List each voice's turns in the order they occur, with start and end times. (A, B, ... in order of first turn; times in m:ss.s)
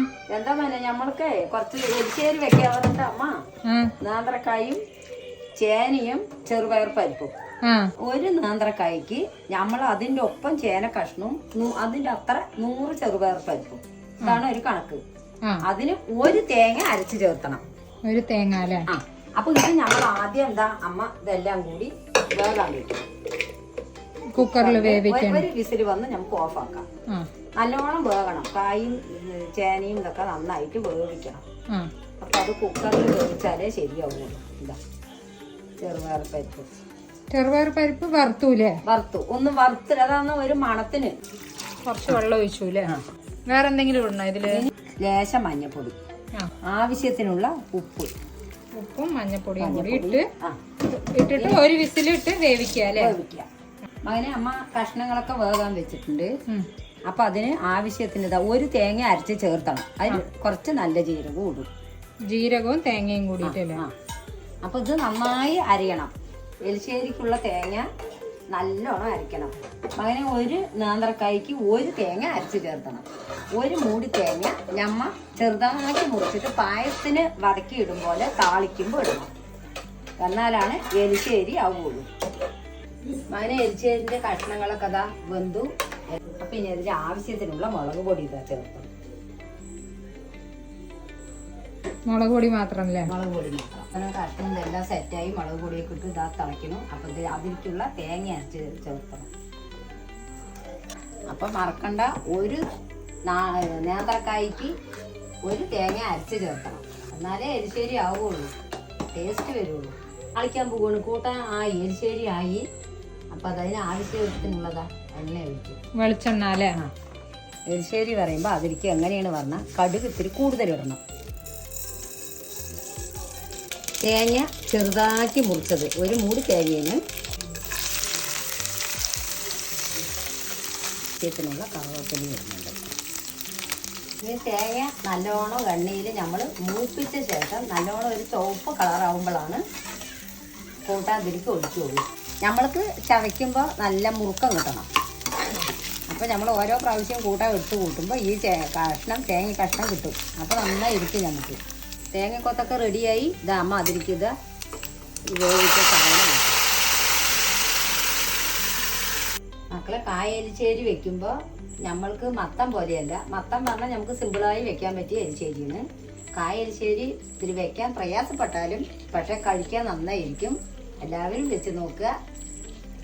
0:00.3-0:03.4 A
0:03.7-0:03.9 B
0:04.0-0:04.8 A
0:05.6-0:07.3 A
0:07.6-0:07.9 B
0:08.0-0:15.0 A
0:15.6-0:17.6 A
0:18.1-0:18.9 B
0:18.9-0:23.0 A
0:24.3-0:25.5 B
0:24.4-0:26.9 A
0:27.6-0:31.4 A
0:32.2-0:34.8 A
0:35.8-0:36.7 A
0:37.3-0:38.8 B
0:38.8-0:41.2 A
0:41.9-0:43.0 B
0:43.5-0:44.6 B
0:44.5-0:46.0 A
0:46.6-0:48.1 A
0:48.8-0:50.3 B
0:49.6-0:50.6 A
0:50.9-0:53.2 B
0:51.4-0:51.6 A
0:52.9-0:53.5 A
0:54.0-0:56.3 A
0:57.1-1:01.7 A
1:02.3-1:03.8 B
1:03.4-1:03.9 A
1:04.6-1:06.1 A
1:06.6-1:07.8 A
1:08.5-1:19.3 A
1:20.2-1:22.1 A
1:23.3-1:25.7 A
1:26.2-1:28.9 A
1:32.1-1:33.1 B
1:33.0-1:39.3 A
1:41.3-1:42.6 A
1:43.3-1:44.7 A
1:45.4-1:48.5 A
1:49.1-1:52.7 A
1:53.3-1:55.8 A
1:56.0-1:56.8 B
1:57.7-2:01.0 A
2:04.0-2:07.0 A
2:11.2-2:12.9 A
2:14.2-2:19.6 A
2:20.8-2:24.9 A
2:26.1-2:31.6 A
2:32.1-2:34.3 A
2:35.3-2:36.6 A
2:39.7-2:45.8 A
2:46.4-2:52.1 A